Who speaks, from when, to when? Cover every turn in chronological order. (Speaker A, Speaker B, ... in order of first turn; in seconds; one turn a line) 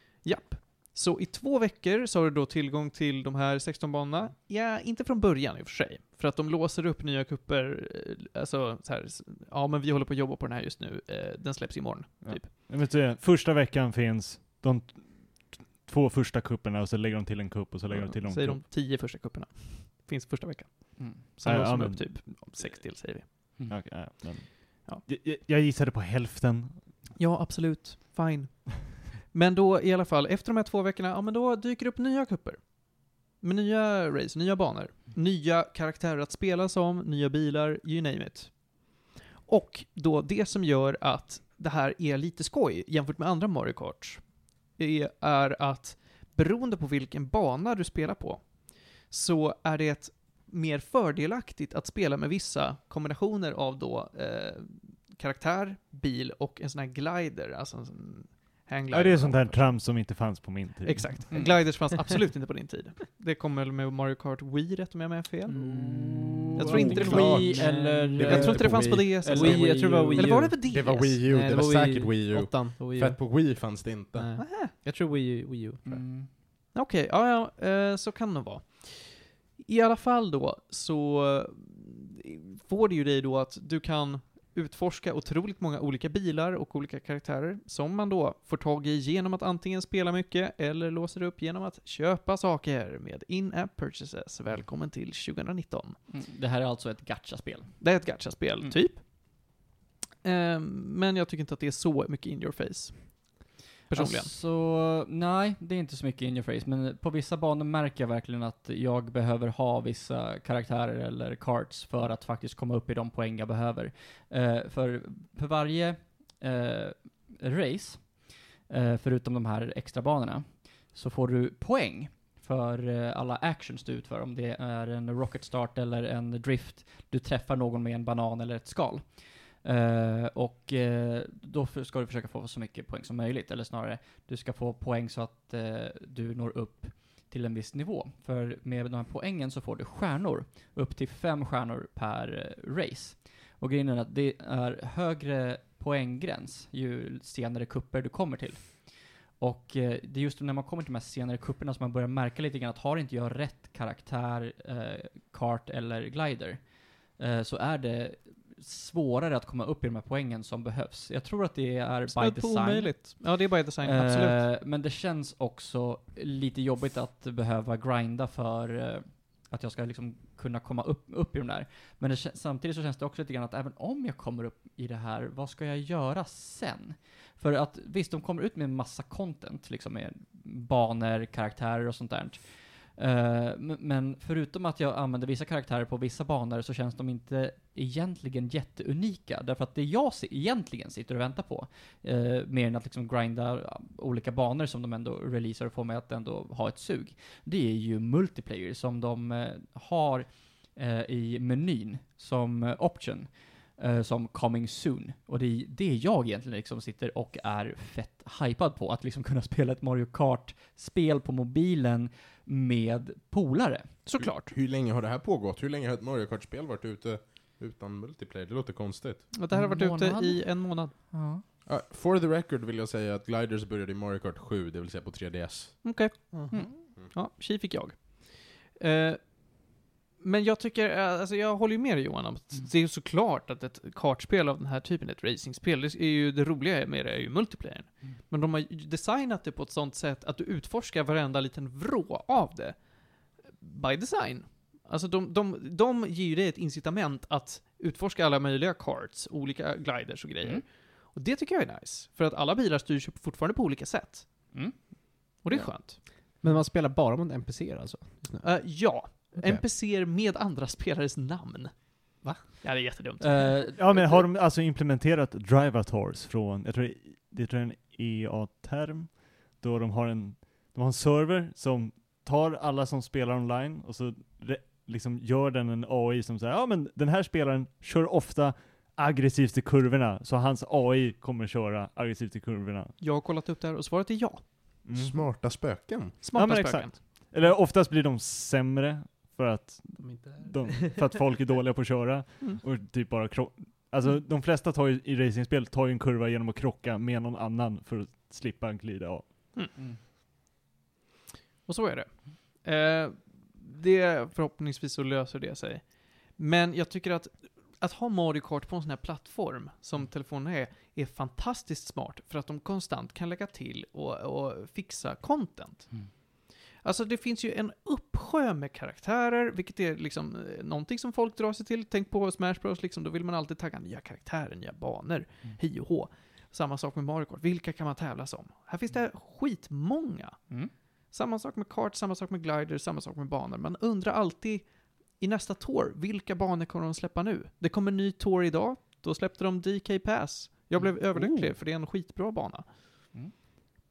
Speaker A: 0.2-12.5
Speaker B: 12.2-18.6
Speaker A: 17.9-23.3
Speaker B: 21.4-22.9
Speaker B: 23.7-26.9
Speaker A: 27.2-60.2
Speaker B: 58.9-61.3
Speaker A: 60.8-65.6
Speaker C: 61.3-61.7
Speaker D: 65.5-68.8
Speaker C: 65.6-70.4
Speaker A: 66.5-71.2
Speaker E: 67.1-67.5
Speaker E: 68.2-69.3
Speaker D: 69.3-73.2
Speaker E: 70.7-74.3
Speaker D: 74.1-76.0
Speaker A: 74.4-74.7
Speaker C: 75.8-76.3
Speaker A: 76.7-96.0
Speaker C: 96.1-97.8
Speaker A: 97.8-99.5
Speaker A: 100.2-104.3
Speaker C: 103.9-118.2
Speaker C: 118.7-129.1
Speaker C: 129.6-156.7
Speaker C: 157.2-163.3
Speaker A: 162.1-164.5
Speaker C: 163.8-182.4
Speaker C: 183.0-213.9
Speaker A: 214.1-214.5
Speaker E: 214.2-219.3
Speaker A: 219.3-220.9
Speaker C: 219.5-221.4
Speaker E: 221.7-225.8
Speaker A: 225.8-254.5
Speaker C: 254.5-255.7
Speaker A: 255.4-256.0
Speaker D: 256.4-259.6
Speaker A: 258.4-263.8
Speaker C: 263.2-264.0
Speaker B: 263.8-282.9
Speaker A: 283.0-284.6
Speaker B: 284.9-285.3
Speaker E: 284.9-286.2
Speaker A: 286.2-287.0
Speaker B: 286.3-299.3
Speaker D: 290.0-291.1
Speaker A: 301.7-315.9
Speaker A: 316.8-330.4
Speaker A: 331.1-342.6
Speaker D: 341.1-341.5